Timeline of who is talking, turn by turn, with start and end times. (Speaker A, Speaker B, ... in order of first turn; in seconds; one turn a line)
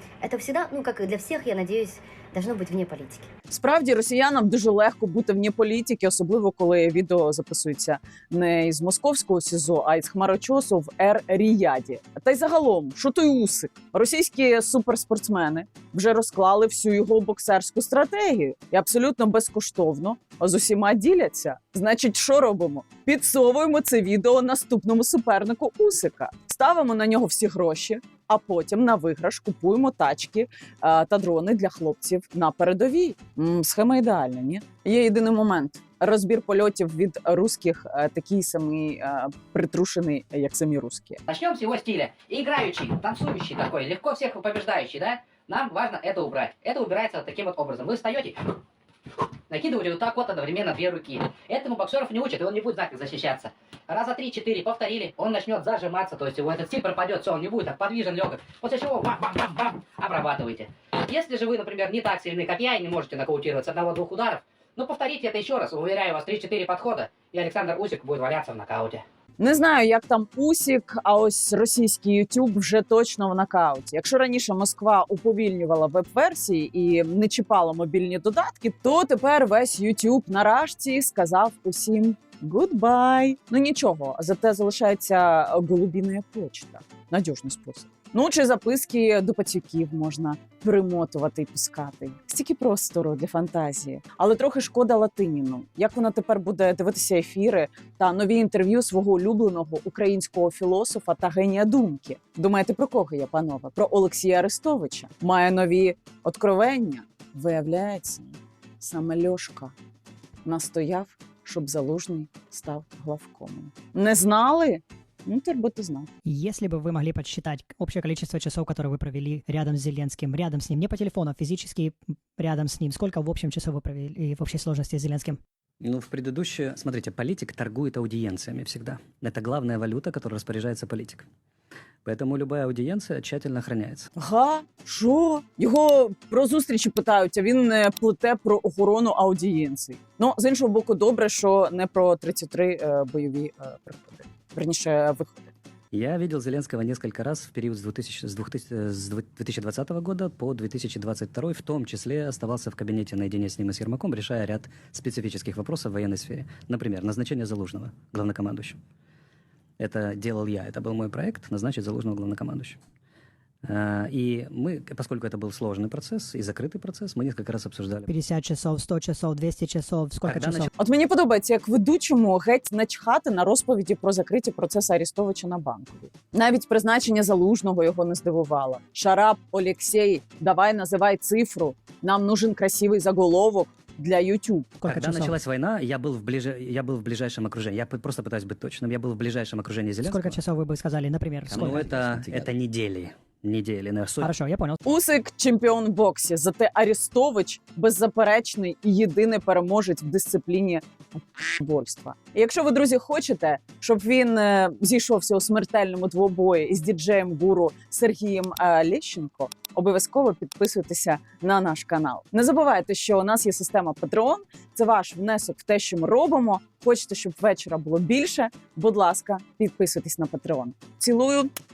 Speaker A: 0.2-3.3
Speaker B: 3.5-41.2
Speaker C: 41.3-48.4
Speaker C: 49.5-69.0
Speaker B: 69.4-109.7
Speaker B: 110.4-116.1
Speaker D: 116.2-125.4
Speaker E: 125.8-131.2
Speaker E: 132.0-134.1
Speaker B: 134.2-145.5
Speaker E: 145.9-158.8
Speaker E: 159.8-162.8
Speaker E: 163.7-168.1
Speaker D: 168.1-170.7
Speaker E: 170.2-170.7
Speaker B: 170.8-184.7
Speaker D: 184.8-185.4
Speaker E: 184.8-190.4
Speaker D: 190.0-192.4
Speaker E: 191.5-194.3
Speaker D: 194.2-194.8
Speaker B: 194.9-221.5